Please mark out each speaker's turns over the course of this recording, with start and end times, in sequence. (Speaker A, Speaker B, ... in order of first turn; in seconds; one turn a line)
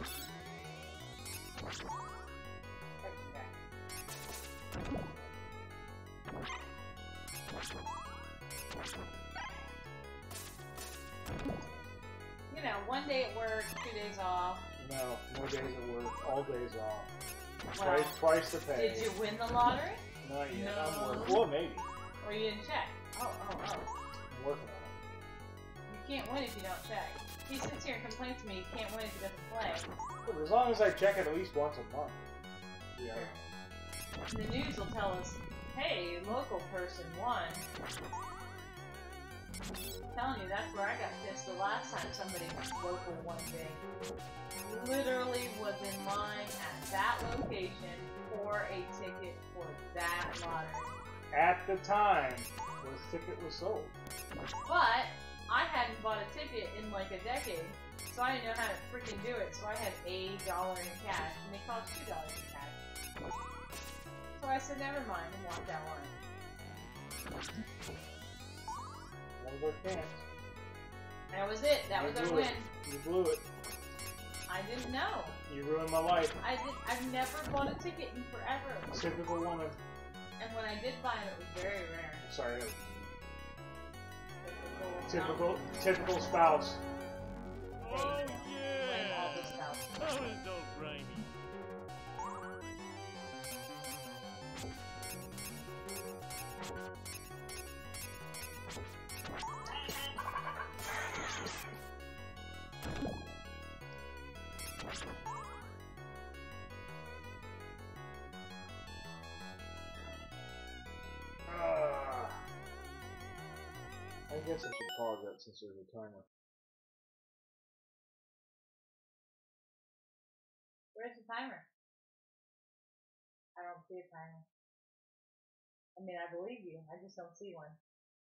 Speaker A: 3.0-3.5
Speaker A: 12.5-14.7
Speaker B: 14.8-17.1
Speaker A: 17.7-18.2
Speaker B: 17.8-19.1
Speaker A: 18.7-21.5
Speaker B: 20.2-21.9
Speaker A: 22.2-23.9
Speaker B: 24.3-24.9
Speaker A: 25.9-29.9
Speaker B: 30.2-32.3
Speaker B: 32.9-33.3
Speaker A: 34.3-37.6
Speaker A: 40.1-43.8
Speaker A: 44.5-51.0
Speaker B: 51.3-54.0
Speaker A: 54.6-62.8
Speaker A: 64.4-66.1
Speaker B: 69.4-70.2
Speaker A: 71.3-72.7
Speaker B: 71.9-73.4
Speaker A: 74.5-75.4
Speaker B: 75.5-76.3
Speaker A: 76.4-78.9
Speaker B: 78.9-79.8
Speaker A: 80.4-82.2
Speaker B: 82.2-83.1
Speaker A: 84.4-85.7
Speaker B: 85.0-86.8
Speaker A: 87.8-89.9
Speaker B: 111.5-112.4
Speaker B: 114.3-116.2
Speaker A: 120.9-121.6
Speaker A: 123.5-124.4
Speaker A: 126.0-127.8